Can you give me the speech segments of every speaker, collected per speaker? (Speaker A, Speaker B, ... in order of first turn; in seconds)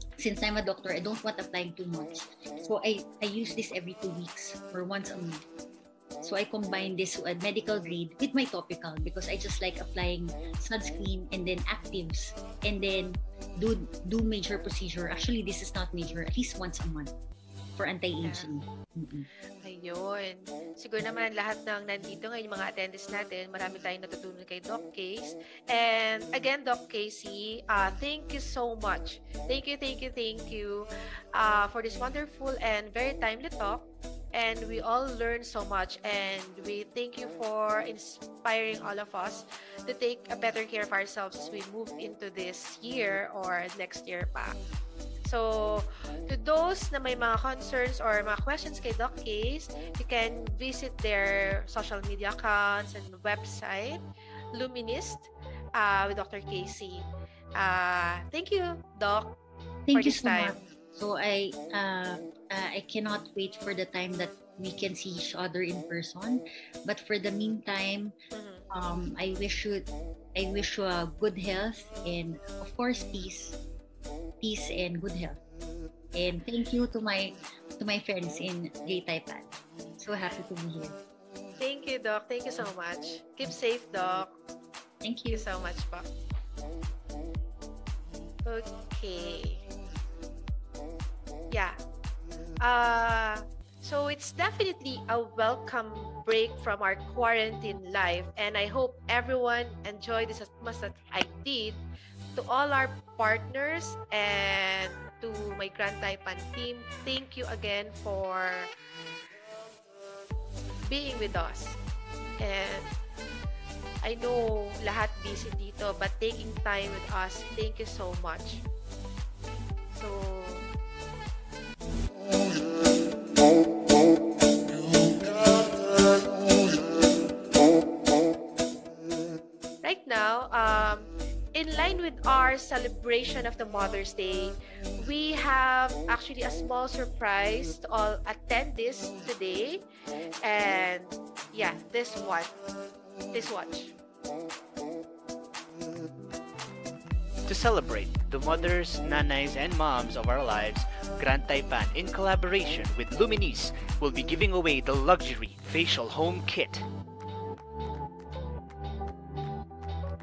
Speaker A: 0.2-5.4, 6.2-17.1, 17.8-19.3, 59.9-68.1, 68.7-73.6, 74.4-75.4, 76.1-81.0, 85.0-85.4
Speaker B: 18.2-18.5, 19.6-44.5, 45.2-54.0, 54.5-59.3, 59.9-60.6, 68.3-68.7, 81.6-84.3, 85.3-86.1, 88.4-89.6, 91.5-91.8, 92.6-101.8, 102.3-108.7, 110.9-111.8, 112.4-112.9, 114.0-118.6, 119.9-120.7, 129.8-139.8, 140.4-142.6, 143.3-143.9
Speaker C: 147.5-156.8